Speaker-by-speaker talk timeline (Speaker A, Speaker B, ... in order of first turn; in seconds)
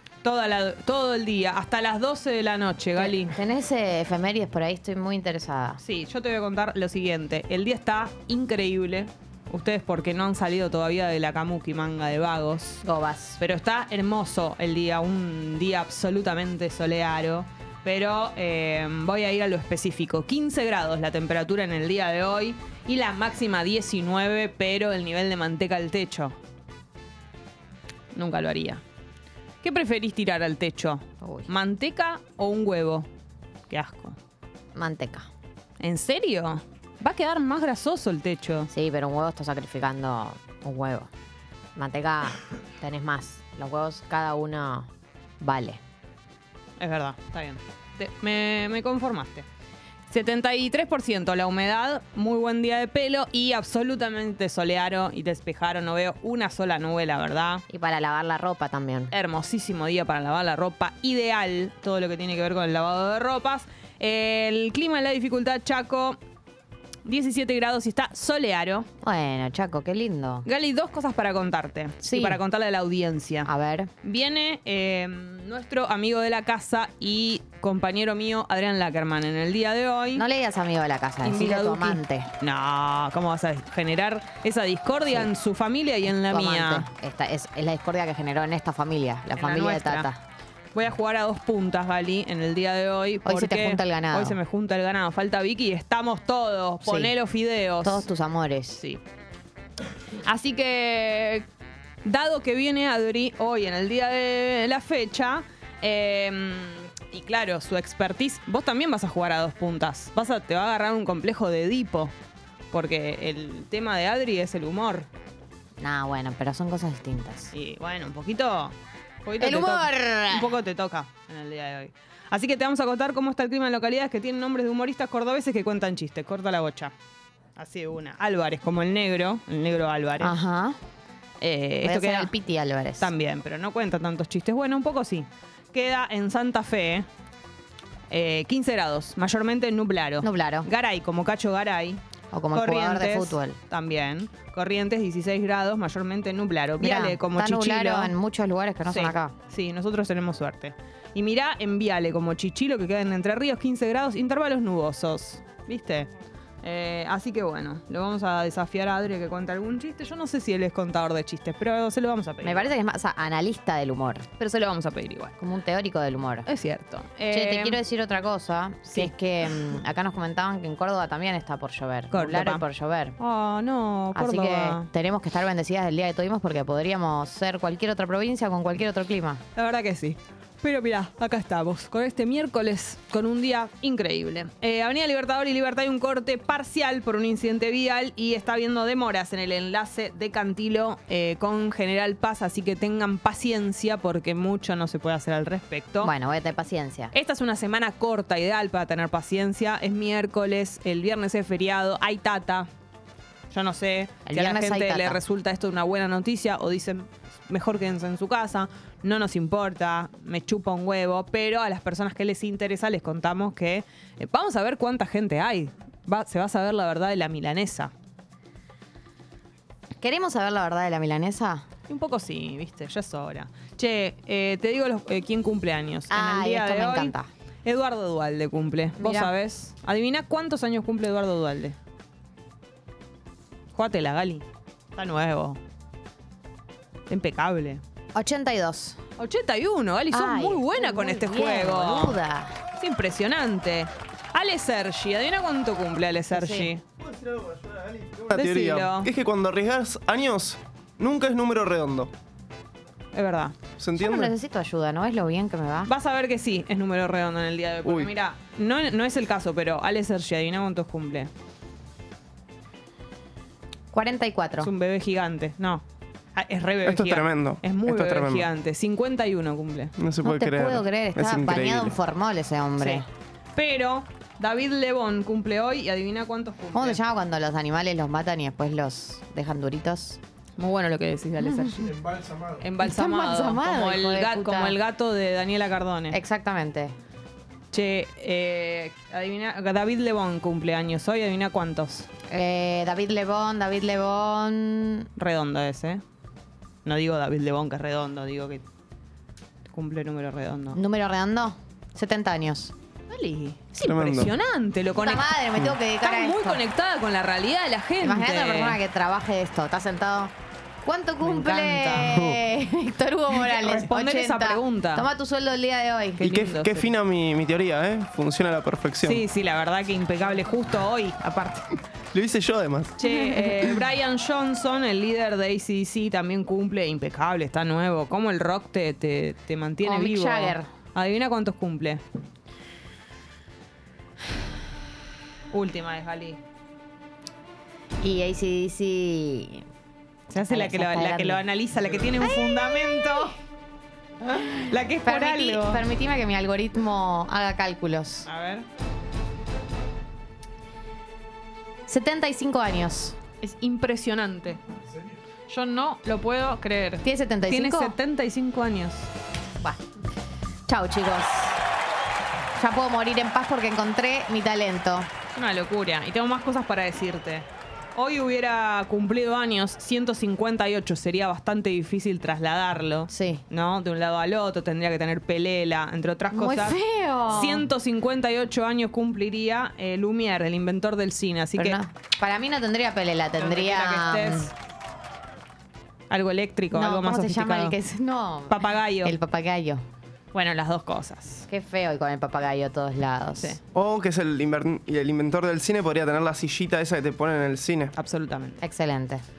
Speaker A: 0.2-3.3, 5.8-12.8, 13.4-26.4, 28.1-28.8, 29.6-33.1, 33.7-34.2, 35.8-38.7, 46.8-49.5, 50.1-57.6, 59.1-66.2, 67.0-68.9, 70.5-73.5, 74.0-80.2, 81.2-86.9, 89.3-90.1, 90.7-98.0, 98.8-99.0, 100.1-101.5, 102.0-112.1, 112.7-115.1, 117.5-126.9, 127.5-130.4, 131.4-132.3, 133.0-137.1, 138.1-142.0, 142.5-148.1, 148.8-156.1, 156.6-162.7, 164.4-165.4, 166.4-167.8, 168.9-169.1, 172.1-172.6, 173.2-174.9, 179.5-196.1, 197.1-202.7, 203.5-217.9, 221.9-227.1, 227.6-231.8, 233.7-235.6, 237.1-237.8, 239.2-242.2, 242.8-246.8, 248.3-249.1, 253.1-253.6, 255.9-261.3, 264.6-265.8, 266.4-269.9, 273.5-277.0, 280.6-286.2, 287.7-292.1, 295.1-296.0, 296.8-298.6, 299.7-300.8, 303.1-305.4, 306.0-308.8, 311.2-312.2, 313.3-315.1, 316.2-316.9, 319.0-321.8, 323.0-332.0, 335.5-336.4, 340.3-343.4, 344.2-345.8, 348.2-348.6, 353.4-354.6, 355.5-359.1, 365.3-381.8, 383.4-384.5, 386.1-387.8, 388.5-389.2, 390.3-391.5, 397.9-398.6
Speaker B: 3.0-5.8, 12.8-13.4, 31.2-31.5, 34.7-35.3, 38.7-41.1, 41.8-44.9, 45.4-45.8, 57.7-59.1, 69.0-70.5, 72.0-72.4, 73.4-73.9, 80.1-82.3, 86.0-90.2, 93.2-94.4, 96.8-97.1, 97.8-98.8, 115.8-117.5, 119.4-120.6, 130.2-130.8, 131.8-133.1, 140.2-140.7, 142.3-143.6, 146.8-149.3, 162.4-164.3, 165.4-166.5, 167.3-173.2, 174.1-179.4, 196.0-197.1, 204.2-205.2, 220.0-221.6, 226.1-227.3, 229.0-229.3, 238.1-239.0, 240.1-242.6, 246.3-246.7, 254.0-255.9, 263.9-264.7, 270.2-273.1, 276.7-280.2, 281.4-281.8, 282.8-284.8, 286.1-286.9, 292.3-295.1, 300.7-302.7, 304.9-306.6, 308.0-310.3, 310.8-316.3, 329.8-330.7, 338.0-339.6, 340.4-341.4, 342.1-343.3, 345.0-348.3, 351.9-353.2, 357.0-357.9, 360.7-361.6, 362.6-365.1, 373.1-373.4, 376.3-377.7, 381.6-384.5, 386.7-389.8, 391.5-393.6, 398.6-399.2
Speaker C: 247.0-252.1, 253.8-254.3, 257.8-258.1, 266.8-268.5, 270.0-272.0, 303.8-304.3, 312.0-312.4, 316.2-319.2, 322.1-323.8, 393.7-397.9